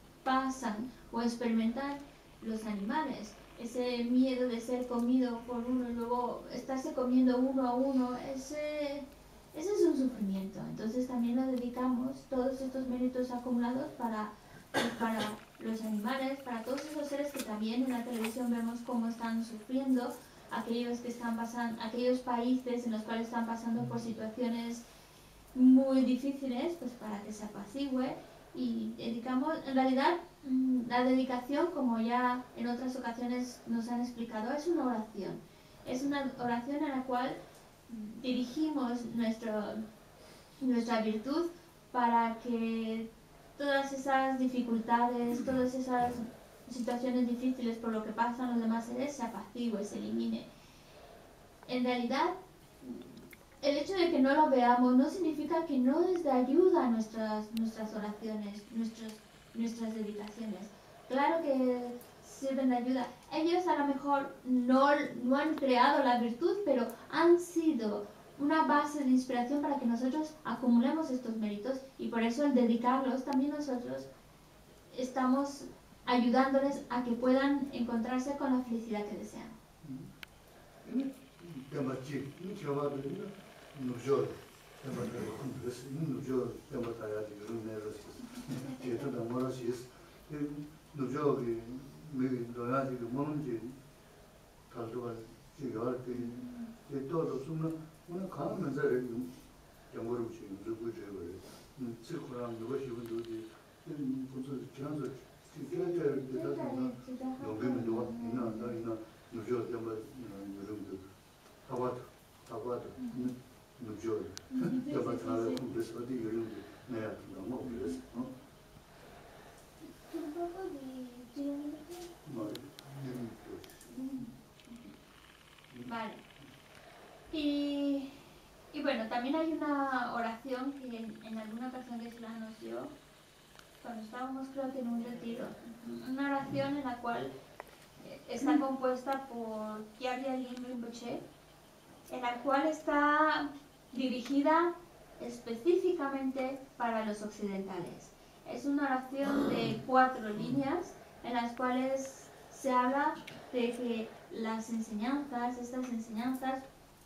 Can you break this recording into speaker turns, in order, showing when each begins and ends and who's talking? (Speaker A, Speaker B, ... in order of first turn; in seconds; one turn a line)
Speaker A: 0.2-24.8
Speaker A: 25.5-37.4
Speaker A: 37.9-39.8
Speaker A: 40.6-50.5
Speaker A: 51.6-74.1
Speaker A: 74.9-79.6
Speaker B: 79.8-80.1
Speaker B: 80.8-93.8
Speaker B: 94.7-99.4
Speaker A: 96.2-96.7
Speaker B: 99.9-111.0
Speaker A: 105.6-108.8
Speaker B: 111.7-118.3
Speaker A: 113.0-113.3
Speaker A: 114.5-115.6
Speaker A: 117.6-118.0
Speaker A: 120.0-122.1
Speaker B: 122.3-123.9
Speaker A: 123.9-124.9
Speaker A: 125.8-126.2
Speaker A: 127.3-132.9
Speaker A: 133.8-137.3
Speaker A: 138.0-141.2
Speaker A: 142.1-156.7